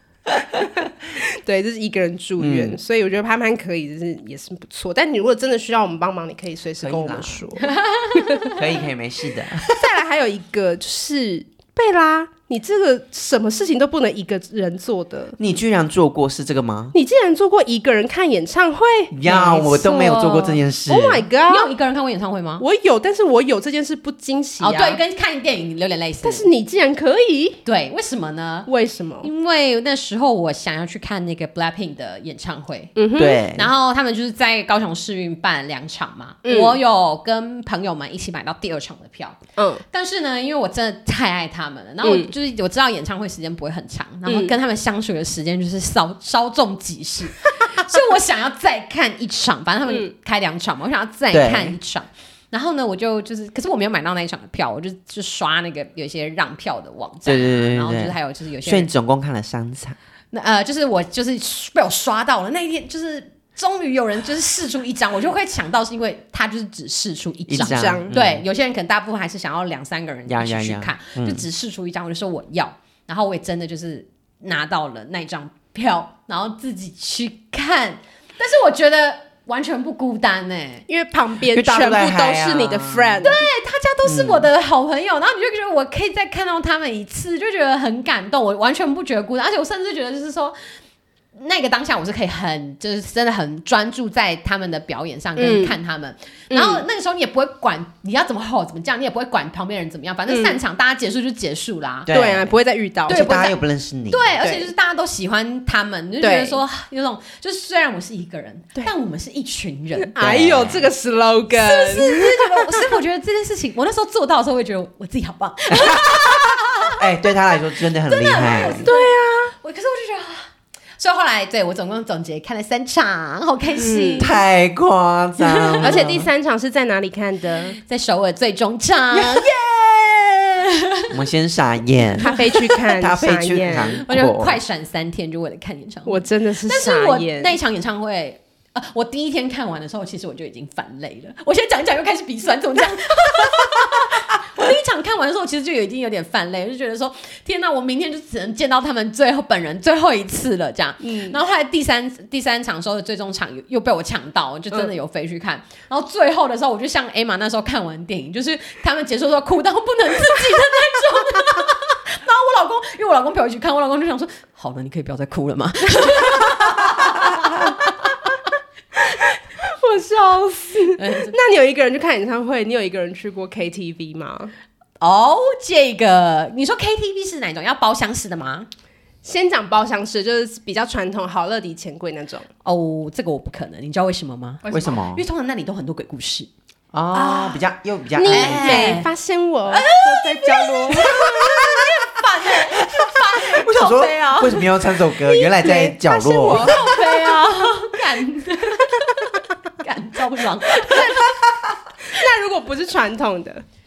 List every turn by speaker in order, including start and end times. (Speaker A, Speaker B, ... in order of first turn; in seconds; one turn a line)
Speaker A: 0.8-8.6
Speaker B: 2.4-2.8
Speaker B: 6.8-7.4
Speaker C: 7.7-8.6
Speaker B: 8.5-9.9
Speaker A: 9.6-15.4
Speaker B: 15.4-16.9
Speaker A: 16.9-19.2
Speaker B: 19.1-21.3
Speaker C: 19.3-20.6
Speaker A: 20.9-21.7
Speaker C: 21.4-22.6
Speaker A: 22.6-25.0
Speaker C: 24.6-26.5
Speaker A: 26.2-27.6
Speaker C: 27.6-28.7
Speaker A: 28.7-29.3
Speaker C: 29.2-33.0
Speaker A: 33.0-33.4
Speaker B: 33.2-33.7
Speaker C: 33.5-39.4
Speaker A: 36.4-36.8
Speaker A: 39.6-39.8
Speaker C: 39.9-58.9
Speaker A: 42.0-42.3
Speaker A: 44.3-44.5
Speaker B: 51.3-51.8
Speaker B: 57.3-60.0
Speaker C: 60.3-80.8
Speaker B: 67.5-68.5
Speaker A: 67.6-68.1
Speaker B: 70.3-71.5
Speaker A: 80.9-83.5
Speaker B: 81.5-83.2
Speaker C: 83.2-90.6
Speaker B: 84.0-84.5
Speaker C: 91.4-102.1
Speaker A: 95.4-95.8
Speaker A: 96.5-96.8
Speaker A: 100.3-100.6
Speaker B: 102.1-102.5
Speaker A: 102.1-103.5
Speaker B: 103.1-104.6
Speaker C: 103.1-103.6
Speaker C: 104.1-110.1
Speaker A: 104.4-104.7
Speaker A: 106.2-106.6
Speaker A: 110.1-113.0
Speaker B: 110.2-110.9
Speaker C: 111.5-117.1
Speaker B: 115.7-118.9
Speaker C: 118.1-124.3
Speaker A: 118.8-119.5
Speaker A: 123.8-124.3
Speaker B: 124.2-126.3
Speaker C: 125.4-126.0
Speaker A: 125.8-127.8
Speaker C: 127.8-131.2
Speaker B: 129.1-129.5
Speaker B: 131.1-134.6
Speaker A: 132.2-134.0
Speaker C: 133.8-168.1
Speaker A: 136.1-137.5
Speaker A: 151.0-151.4
Speaker A: 169.0-174.5
Speaker C: 171.0-171.3
Speaker C: 175.0-178.7
Speaker A: 179.2-182.5
Speaker C: 182.6-186.5
Speaker B: 184.7-185.3
Speaker B: 186.9-189.0
Speaker A: 187.1-187.7
Speaker A: 188.2-191.1
Speaker C: 188.3-189.1
Speaker C: 189.7-195.0
Speaker B: 191.0-191.9
Speaker B: 192.5-197.0
Speaker A: 195.5-197.2
Speaker C: 196.4-201.4
Speaker A: 200.7-201.3
Speaker A: 202.0-203.6